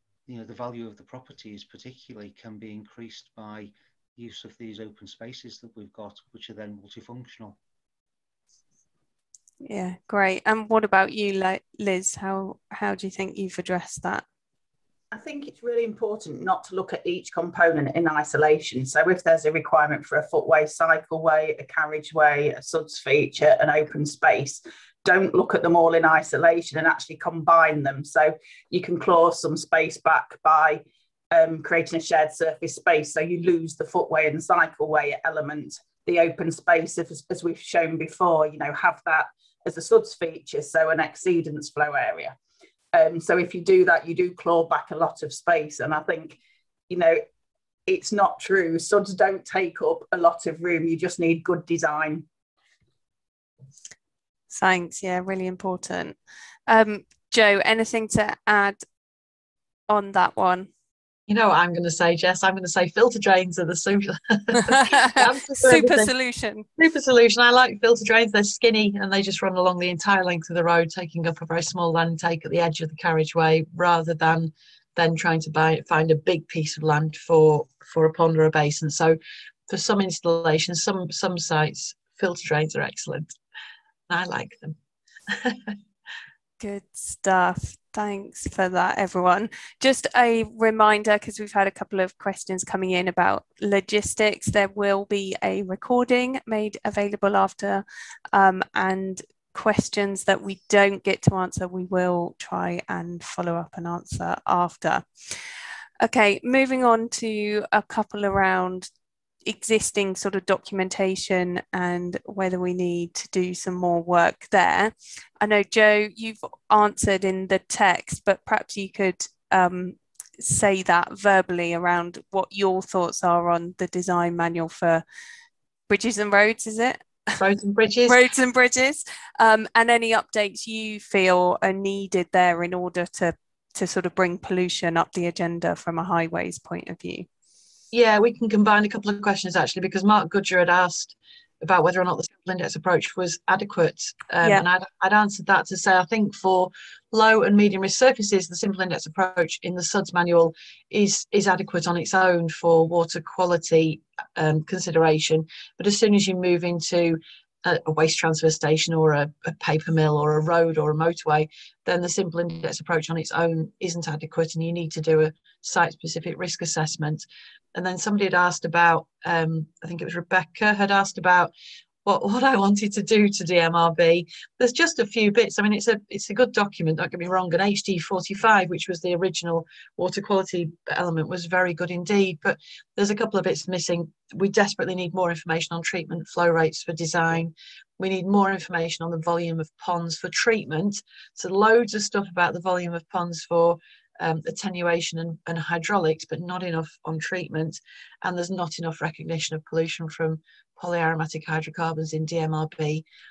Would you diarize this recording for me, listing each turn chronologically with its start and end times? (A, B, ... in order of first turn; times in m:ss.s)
0:00.3-0:07.6 A
0:09.6-0:14.2 B
0:15.1-0:42.4 C
0:42.9-0:46.4 C
0:46.9-0:47.2 C
0:47.9-0:52.2 C
0:54.5-0:56.2 B
0:56.7-0:58.8 B
0:59.9-1:00.7 B
1:01.3-1:06.1 D
1:04.6-1:06.7 B
1:06.8-1:19.2 D
1:19.7-1:23.3 D
1:24.1-1:24.8 D
1:25.3-1:25.7 D
1:26.6-1:45.3 B
1:46.0-1:48.9 B
1:49.4-2:05.0 B
2:05.9-2:07.1 B
2:07.4-2:08.2 D
2:08.1-2:17.3 B
2:17.9-2:47.2 D
2:47.7-2:51.5 D
2:52.0-3:23.0 D